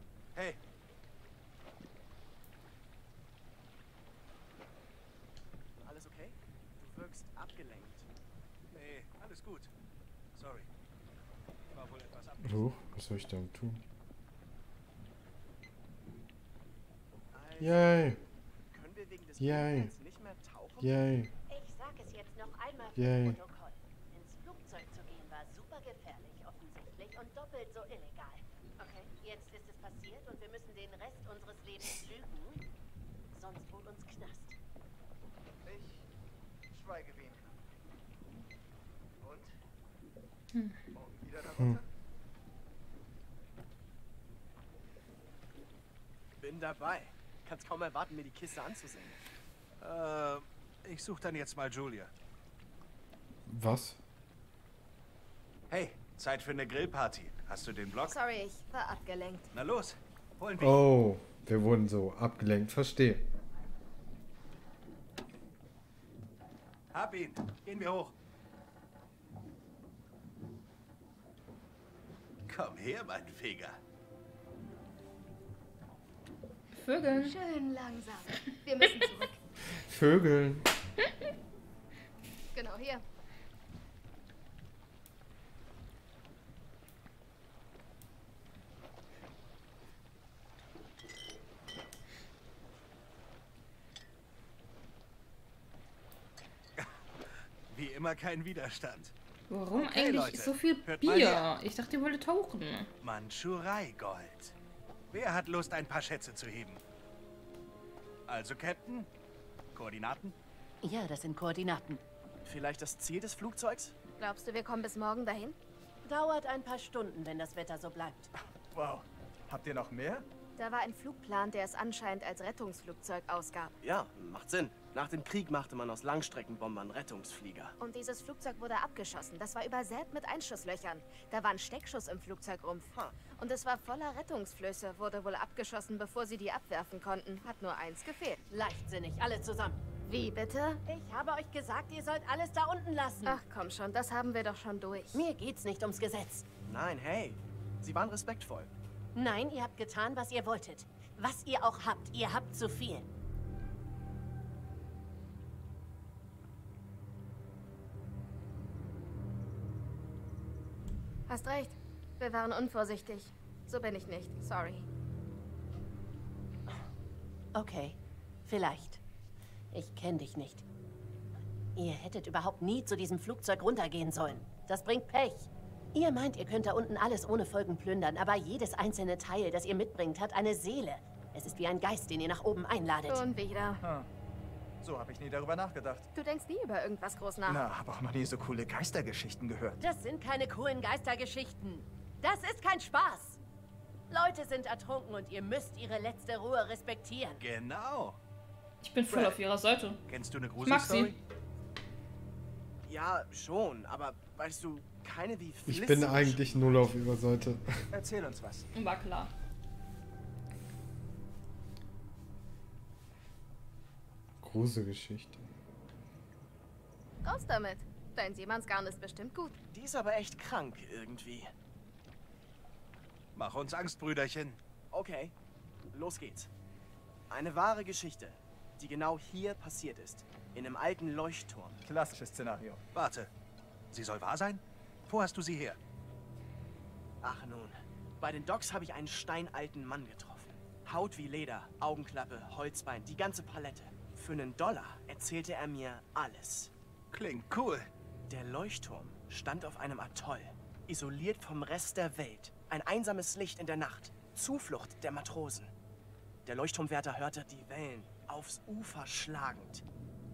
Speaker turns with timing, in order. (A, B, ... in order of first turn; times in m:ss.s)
0:05.8-0:08.1 A
0:08.7-0:09.7 B
0:10.3-0:10.7 B
0:11.7-0:12.7 B
0:12.4-0:13.8 C
0:17.3-0:18.2 A
0:17.6-0:18.2 C
0:18.7-0:21.0 A
0:19.4-0:19.9 C
0:20.8-0:21.3 C
0:21.5-0:32.6 D
0:23.0-0:23.4 C
0:33.3-0:34.6 D
0:35.6-0:36.0 E
0:36.7-0:37.6 E
0:39.2-0:39.5 E
0:40.9-0:41.8 E
0:46.4-0:49.2 A
0:49.8-0:52.1 B
0:53.5-0:54.0 C
0:55.7-0:58.1 B
0:58.1-0:59.5 F
0:59.5-1:00.8 B
1:00.6-1:03.2 C
1:06.9-1:08.1 B
1:12.5-1:13.8 B
1:16.7-1:17.4 G
1:17.1-1:19.4 F
1:19.8-1:20.7 C
1:22.5-1:23.0 F
1:37.7-1:39.1 B
1:39.5-1:42.9 G
1:39.7-1:41.4 B
1:43.0-1:44.5 B
1:45.1-1:46.8 B
1:48.3-1:49.1 B
1:49.7-1:50.3 B
1:50.8-1:52.0 D
1:52.4-1:53.9 A
1:54.2-1:55.6 F
1:56.0-1:58.3 D
1:58.7-2:00.2 E
2:00.6-2:03.7 F
2:03.8-2:07.7 A
2:07.8-2:18.4 F
2:18.5-2:19.8 D
2:20.0-2:20.8 F
2:20.8-2:23.4 D
2:23.2-2:25.2 F
2:25.1-2:26.5 D
2:26.7-2:28.7 A
2:29.1-2:33.1 D
2:41.3-2:44.9 F
2:47.5-2:49.0 D
2:49.7-2:50.6 D
2:51.8-3:03.2 D
3:03.1-3:03.8 F
3:03.8-3:04.1 E
3:04.8-3:06.1 E
3:06.1-3:07.6 F
3:07.4-3:09.8 E
3:09.8-3:13.4 D
3:14.1-3:17.4 D
3:17.4-3:18.2 B
3:18.8-3:20.0 G
3:20.1-3:21.2 B
3:20.6-3:21.1 G
3:22.8-3:26.9 A
3:25.7-3:27.7 C
3:27.9-3:28.7 E
3:28.7-3:29.3 G
3:34.4-3:35.4 C
3:37.2-3:39.6 F
3:39.7-3:41.5 A
3:43.3-3:44.6 B
3:44.9-3:45.3 A
3:45.9-3:46.5 A
3:47.3-3:51.8 A
3:51.8-3:52.8 E
3:52.9-3:53.3 B
3:53.9-3:55.8 B
3:57.2-4:06.7 A
4:07.1-4:07.9 B
4:08.3-4:15.7 A
4:16.4-4:19.8 A